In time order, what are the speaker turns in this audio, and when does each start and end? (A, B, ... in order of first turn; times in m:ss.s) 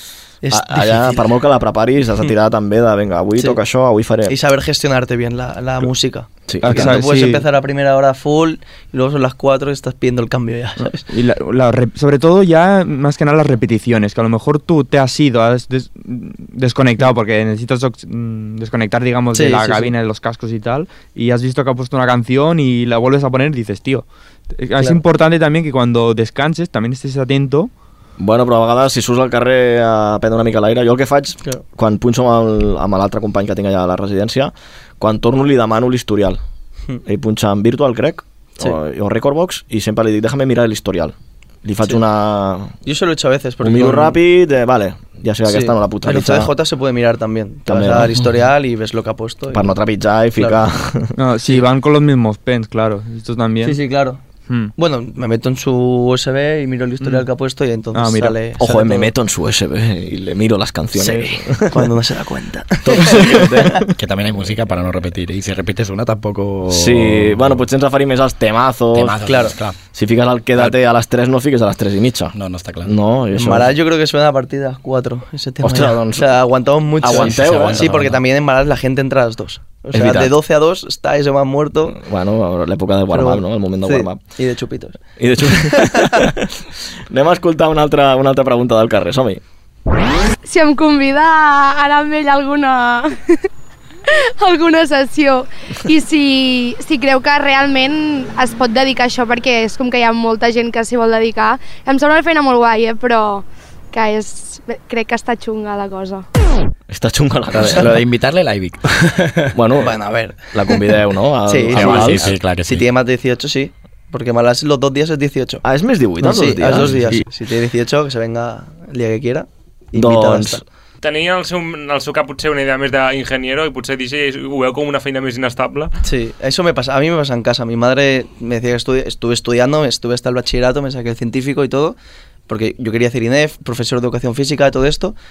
0:00.4-0:01.2 A
0:00.5-0:04.3 B
0:04.3-0:11.0 A
0:06.5-0:06.9 B
0:06.6-0:07.4 C
0:11.1-0:27.7 C
0:19.3-0:19.9 A
0:28.2-0:36.4 B
0:37.0-0:42.7 B
0:42.8-0:44.2 A
0:43.6-0:46.5 B
0:45.5-0:49.7 A
0:47.7-0:48.1 B
0:49.5-0:51.1 B
0:51.2-0:53.8 C
0:53.6-0:54.2 A
0:54.8-0:59.1 A
0:57.0-0:57.3 C
0:57.9-0:58.4 C
0:58.6-1:01.9 B
1:00.9-1:03.7 A
1:02.8-1:03.9 B
1:04.0-1:07.6 D
1:06.7-1:09.2 B
1:08.9-1:09.8 D
1:09.2-1:09.6 A
1:09.9-1:13.7 B
1:12.3-1:12.9 D
1:13.3-1:22.0 A
1:15.6-1:16.3 B
1:17.0-1:17.9 B
1:17.0-1:18.2 D
1:19.9-1:20.3 B
1:21.9-1:24.2 B
1:23.1-1:26.2 A
1:25.2-1:29.4 B
1:30.4-1:33.2 E
1:34.1-1:46.2 E
1:46.9-1:47.9 B
1:47.5-1:49.5 D
1:49.5-1:50.0 B
1:49.8-1:50.9 A
1:50.5-1:52.3 B
1:51.4-1:55.6 A
1:51.7-1:52.9 D
1:55.6-1:57.0 B
1:56.2-2:00.6 A
1:59.9-2:00.6 B
2:01.0-2:05.9 F
2:06.0-2:12.0 A
2:12.5-2:15.1 A